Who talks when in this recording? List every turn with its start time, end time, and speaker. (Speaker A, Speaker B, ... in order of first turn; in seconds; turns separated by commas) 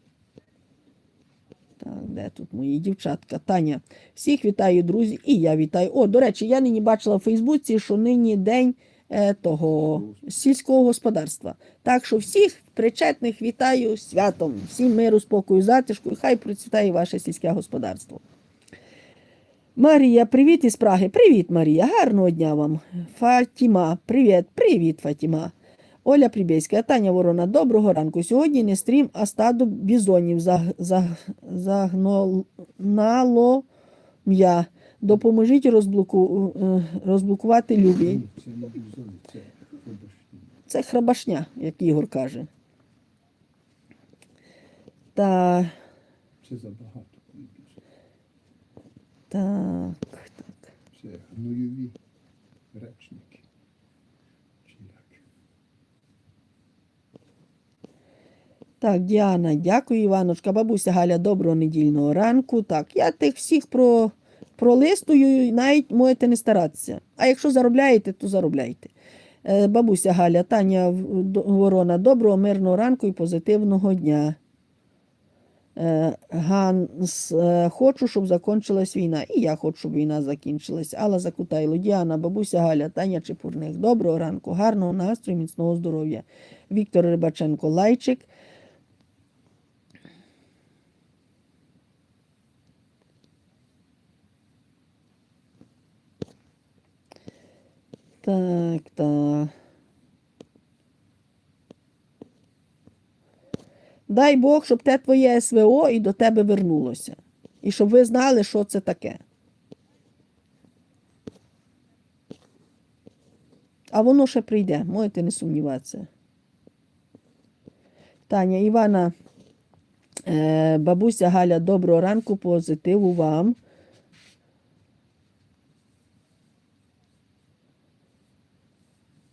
Speaker A: 1.8-18.2, Speaker A: 19.8-33.7, Speaker A: 34.2-38.2, Speaker B: 38.0-40.6, Speaker A: 40.7-42.5, Speaker A: 45.1-45.7, Speaker B: 46.4-47.8, Speaker A: 49.3-50.5, Speaker B: 50.9-52.0, Speaker B: 52.7-53.4, Speaker B: 54.6-55.2, Speaker A: 58.8-68.9, Speaker A: 69.4-74.4, Speaker A: 75.8-88.3, Speaker A: 98.2-99.5, Speaker A: 104.1-109.2, Speaker A: 113.9-116.1, Speaker A: 118.3-119.1, Speaker A: 120.2-123.6